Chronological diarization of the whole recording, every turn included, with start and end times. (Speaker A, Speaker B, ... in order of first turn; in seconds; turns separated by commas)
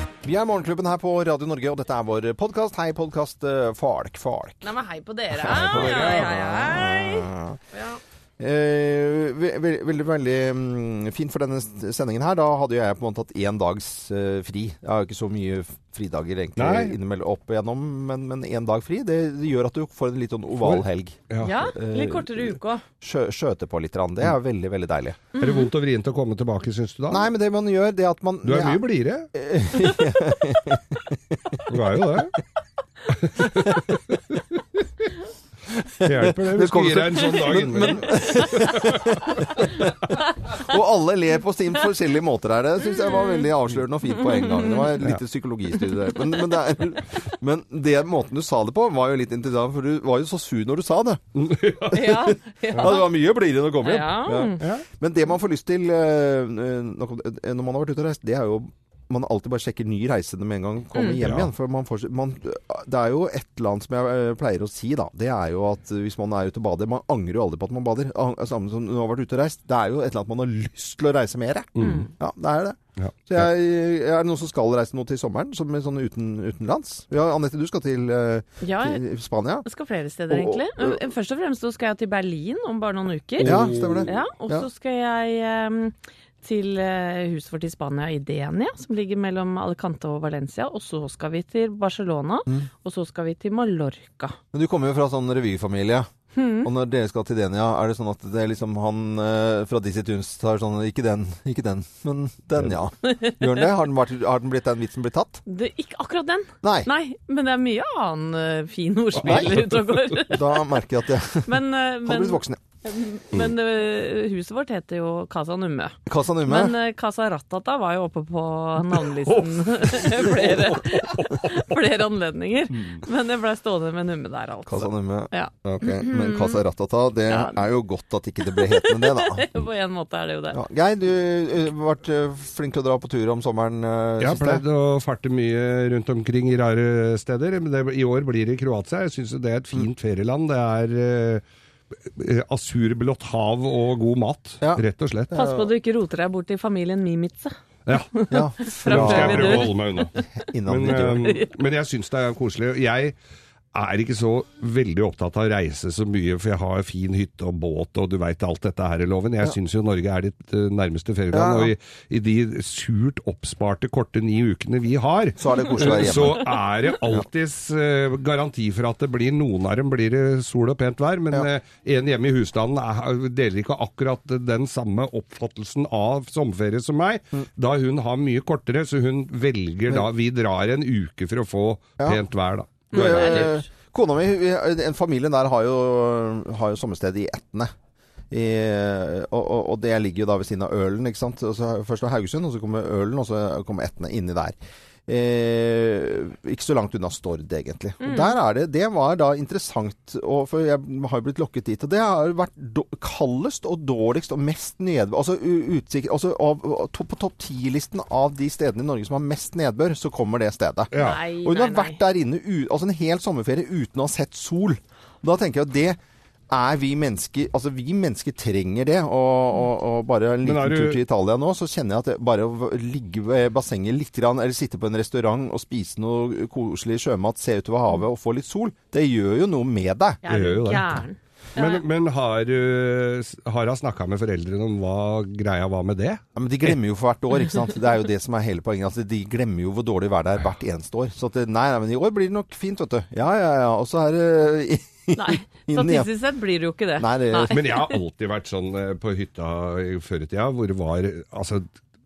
Speaker A: 0.2-4.6, Speaker B: 4.6-8.0, Speaker A: 5.4-7.6, Speaker C: 5.5-6.4, Speaker A: 8.4-25.2, Speaker C: 16.6-16.9, Speaker C: 20.6-21.5, Speaker B: 21.4-22.8, Speaker B: 25.4-25.7, Speaker C: 25.4-27.3, Speaker A: 27.1-28.8, Speaker C: 28.4-29.3, Speaker A: 29.3-31.6, Speaker C: 31.7-32.4, Speaker C: 33.1-34.4, Speaker A: 33.4-33.8, Speaker A: 35.7-39.9, Speaker C: 36.0-39.2, Speaker A: 40.5-51.2, Speaker B: 43.0-43.5, Speaker B: 44.2-44.8, Speaker C: 51.4-52.1, Speaker A: 51.9-79.6, Speaker B: 51.9-53.1, Speaker B: 53.8-54.6, Speaker C: 54.6-54.8, Speaker B: 60.9-61.2, Speaker C: 61.2-61.5, Speaker C: 71.8-72.1, Speaker B: 71.8-72.1, Speaker C: 73.0-73.5, Speaker B: 78.6-79.0, Speaker B: 79.6-94.4, Speaker A: 80.3-81.0, Speaker C: 83.4-84.1, Speaker A: 83.4-84.7, Speaker A: 94.5-96.1, Speaker B: 96.3-96.7, Speaker A: 96.6-105.4, Speaker B: 103.1-103.4, Speaker B: 105.5-110.7, Speaker A: 106.6-106.9, Speaker A: 109.2-109.5, Speaker C: 109.2-110.0, Speaker A: 110.3-112.6, Speaker B: 111.4-126.6, Speaker A: 116.1-116.8, Speaker C: 118.9-121.8, Speaker A: 124.7-129.4, Speaker B: 127.3-127.6, Speaker B: 128.4-130.6, Speaker A: 130.5-134.6, Speaker C: 134.2-141.4, Speaker C: 142.0-145.3, Speaker A: 144.6-145.7, Speaker B: 145.3-147.5, Speaker B: 148.1-150.3, Speaker A: 148.3-149.7, Speaker C: 148.7-150.1, Speaker A: 150.3-151.3, Speaker C: 150.7-153.1, Speaker B: 151.1-151.5, Speaker C: 153.7-183.5, Speaker A: 161.3-161.7, Speaker A: 165.4-166.5, Speaker B: 165.6-166.0, Speaker B: 182.9-183.5, Speaker A: 182.9-187.7, Speaker A: 188.3-194.6, Speaker A: 195.1-216.0, Speaker B: 198.0-198.3, Speaker C: 210.9-211.2, Speaker B: 210.9-212.0, Speaker A: 216.5-230.2, Speaker C: 220.4-221.0, Speaker B: 230.2-231.8, Speaker C: 230.3-231.0, Speaker C: 231.6-236.8, Speaker A: 236.3-246.1, Speaker B: 245.2-247.9, Speaker A: 247.0-247.6, Speaker C: 247.5-251.7